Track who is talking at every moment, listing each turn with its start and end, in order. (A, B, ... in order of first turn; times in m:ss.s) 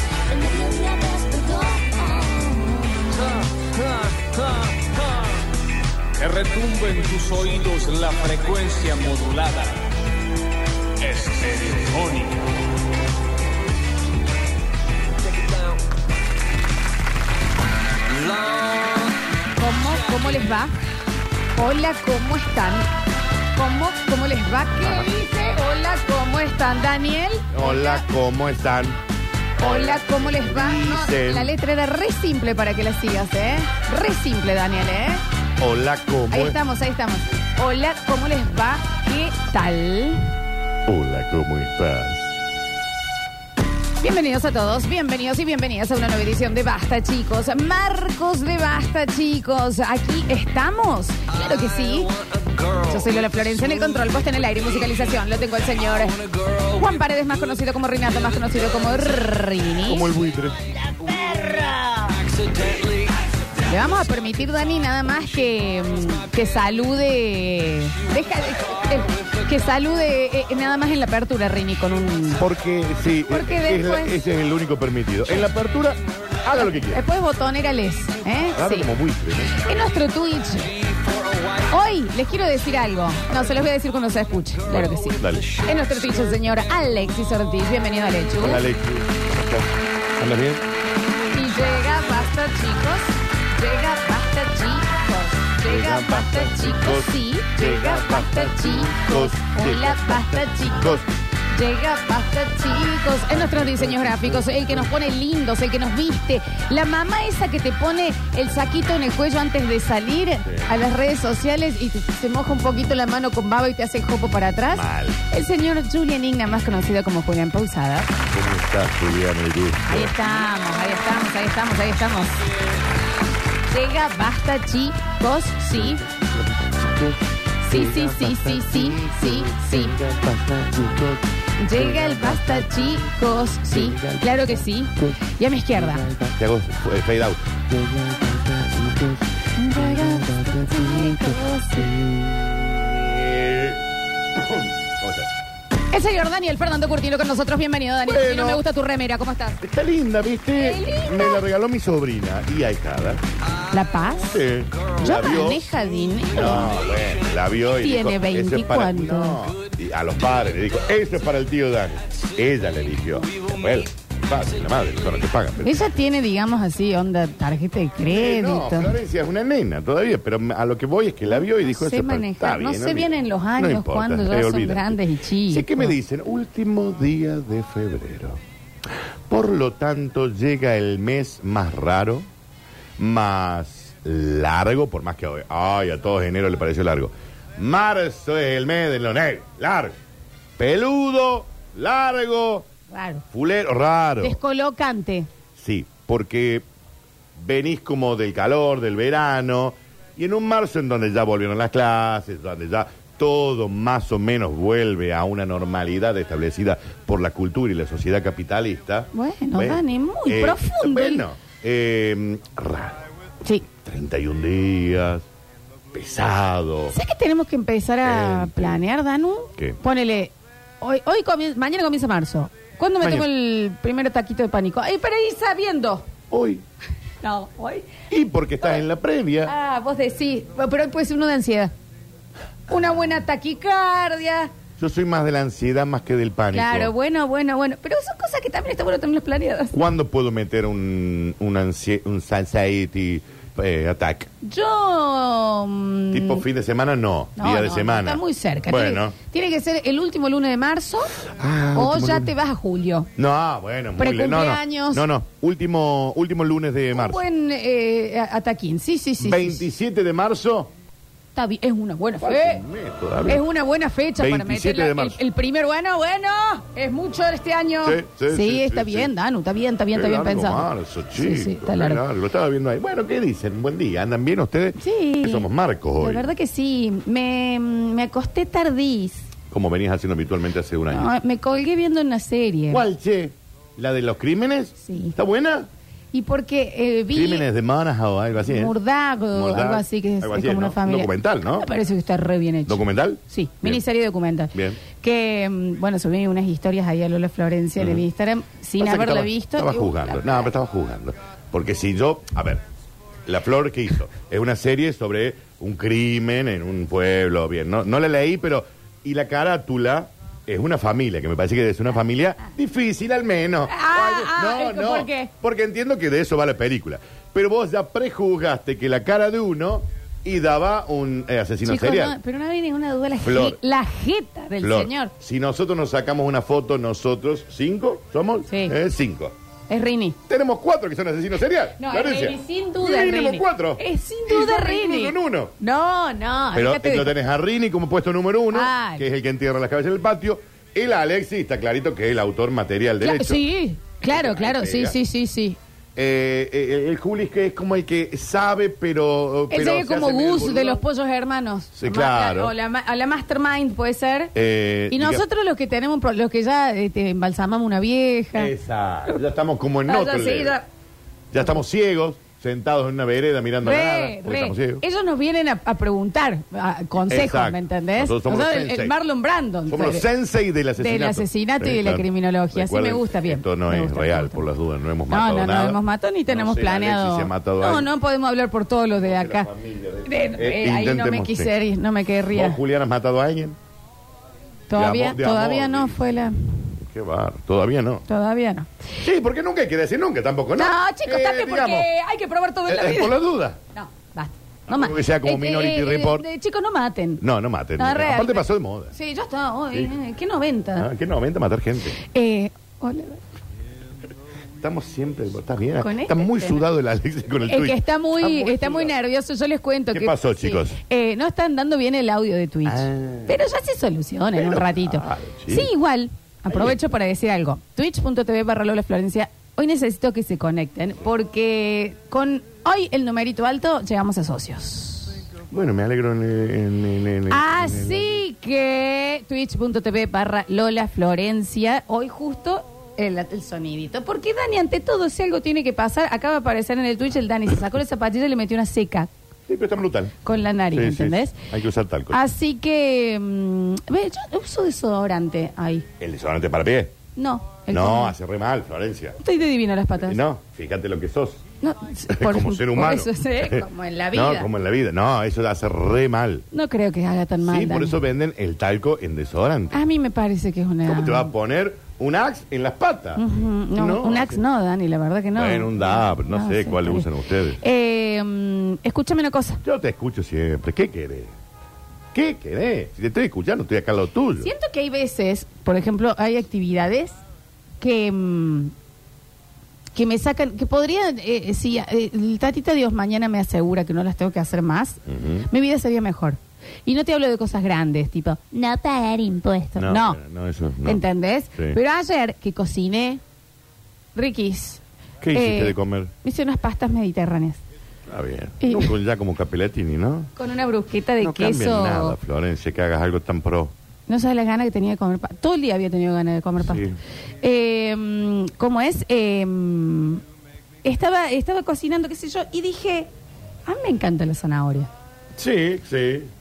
0:00.4-0:02.7 A
0:03.1-0:05.3 B
0:06.2-0:09.9 B
0:11.0-0:12.4 B
0:15.4-0:15.8 B
0:18.1-0:19.1 B
0:19.6-0:20.7 A
0:21.6-0:22.9 A
0:23.5-0:28.0 A
0:24.8-0:25.1 C
0:27.5-0:29.0 C
0:29.6-0:31.6 C
0:29.6-0:35.2 A
0:35.6-0:36.6 C
0:36.3-0:40.3 A
0:40.9-0:42.4 C
0:44.0-0:52.2 A
0:51.6-0:55.0 B
0:52.8-1:00.1 A
0:56.0-0:57.1 B
0:59.8-1:00.6 C
1:00.7-1:03.2 B
1:03.7-1:12.4 A
1:12.4-1:17.0 C
1:13.3-1:14.2 A
1:16.8-1:18.9 A
1:18.5-1:19.6 C
1:19.6-1:20.8 A
1:20.8-1:21.6 B
1:21.7-1:28.6 A
1:24.7-1:25.5 C
1:28.4-1:30.7 C
1:31.3-1:41.0 A
1:35.6-1:41.1 C
1:41.5-1:58.1 A
1:43.3-1:44.9 C
1:50.4-1:50.7 C
1:54.7-1:55.2 C
1:58.3-2:00.2 C
1:59.9-2:02.4 A
2:03.7-2:06.0 A
2:05.8-2:16.4 B
2:07.6-2:10.0 A
2:11.6-2:16.0 A
2:16.4-2:17.5 C
2:17.7-2:22.6 B
2:19.6-2:21.9 A
2:22.7-2:25.3 C
2:25.9-2:29.6 A
2:28.1-2:28.6 C
2:29.6-2:33.2 C
2:30.6-2:31.4 A
2:33.7-2:34.4 A
2:34.2-2:35.8 C
2:35.0-2:36.9 A
2:36.3-2:45.8 C
2:37.8-2:39.5 A
2:43.3-2:43.6 B
2:45.6-2:49.0 A
2:48.1-2:58.4 C
2:51.3-2:56.0 A
2:59.3-3:02.3 C
3:03.0-3:10.0 C
3:10.6-3:12.7 C
3:12.9-3:13.2 A
3:13.3-3:14.4 C
3:14.2-3:15.3 A
3:15.6-3:16.6 C
3:17.4-3:33.0 C
3:29.1-3:31.2 A
3:33.7-3:35.2 C
3:35.9-3:37.0 C
3:36.9-3:46.1 A
3:38.0-3:38.8 C
3:43.0-3:43.3 C
3:46.3-3:46.6 C
3:47.2-3:48.0 A
3:48.1-3:49.5 C
3:49.4-3:51.7 A
3:52.7-3:54.5 A
3:54.8-3:56.9 C
3:56.5-3:59.8 A
3:59.7-4:04.3 C
4:04.4-4:06.4 A
4:06.1-4:09.2 C
4:07.4-4:11.2 A
4:11.2-4:12.3 C
4:11.7-4:13.1 A
4:13.2-4:17.2 C
4:14.0-4:15.1 A
4:16.9-4:19.6 A
4:19.2-4:20.7 C
4:21.4-4:22.6 A
4:22.2-4:23.4 C
4:23.3-4:32.0 A
4:24.2-4:25.2 C
4:27.8-4:29.1 C
4:29.9-4:36.3 C
4:34.8-4:35.5 A
4:36.0-4:39.3 A
4:39.5-4:41.1 C
4:40.9-4:42.8 A
4:42.7-4:45.7 C
4:44.8-4:45.2 A
4:46.1-4:47.5 A
4:47.1-4:48.8 C
4:48.4-5:00.2 A
4:49.3-4:51.7 C
4:52.7-4:53.8 C
4:54.5-4:54.8 C
4:57.8-4:58.0 C
4:58.8-5:02.6 C
5:03.3-5:22.2 C
5:13.7-5:15.3 A
5:21.6-5:25.1 A
5:23.2-5:23.6 C
5:24.6-5:29.3 C
5:28.5-5:28.8 A
5:29.7-5:30.2 A
5:30.3-5:35.5 C
5:31.8-5:37.2 A
5:36.5-5:43.4 C
5:38.5-5:39.0 A
5:43.0-5:45.6 A
5:44.0-5:45.0 C
5:46.0-5:50.8 C
5:49.5-5:54.3 A
5:51.8-5:52.5 C
5:54.4-5:55.2 C
5:54.9-5:58.5 A
5:58.4-6:00.6 C
5:59.9-6:00.7 A
6:01.3-6:04.8 C
6:03.6-6:10.1 A
6:07.1-6:09.0 C
6:09.7-6:17.9 C
6:10.8-6:14.5 A
6:15.1-6:19.5 A
6:19.0-6:21.5 C
6:20.0-6:22.6 A
6:22.3-6:23.6 C
6:24.7-6:26.5 A
6:24.7-6:26.0 C
6:26.8-6:28.0 C
6:28.1-6:28.9 A
6:29.0-6:31.9 C
6:30.6-6:33.2 A
6:32.7-6:33.6 C
6:33.7-6:37.2 A
6:34.7-6:36.3 C
6:37.2-6:38.9 C
6:37.8-6:40.9 A
6:40.8-6:42.0 C
6:42.0-6:43.2 A
6:44.6-6:49.0 C
6:45.8-6:46.6 A
6:47.4-7:05.2 A
6:49.9-6:50.8 C
6:52.6-6:53.4 C
6:54.4-6:55.7 C
6:56.5-6:56.8 C
7:05.5-7:08.2 C
7:07.3-7:19.1 A
7:19.5-7:20.2 C
7:20.2-7:21.4 A
7:20.7-7:22.2 C
7:22.1-7:25.9 A
7:26.0-7:26.9 C
7:27.2-7:28.2 A
7:27.7-7:29.2 C
7:29.2-7:30.2 A
7:30.0-7:31.4 C
7:31.6-7:34.5 A
7:32.1-7:36.4 C
7:36.5-7:38.0 A
7:37.4-7:39.8 C
7:39.7-7:41.3 A
7:40.8-7:43.2 C
7:43.2-7:49.6 A
7:43.8-7:44.4 C
7:45.4-7:47.6 C
7:49.6-7:51.3 C
7:52.1-7:54.5 C
7:54.4-7:57.2 A
7:57.8-7:58.7 A
8:00.0-8:10.2 A
8:05.1-8:05.5 C
8:09.8-8:11.0 C
8:10.8-8:13.2 A
8:14.2-8:14.8 A
8:15.2-8:16.1 C
8:15.3-8:17.6 A
8:18.1-8:20.3 C
8:18.6-8:18.9 A
8:20.4-8:22.2 A
8:21.2-8:23.7 C
8:24.1-8:26.8 A
8:26.6-8:27.0 C
8:27.4-8:30.2 A
8:30.8-8:33.1 A
8:33.7-8:34.9 A
8:35.4-8:36.3 C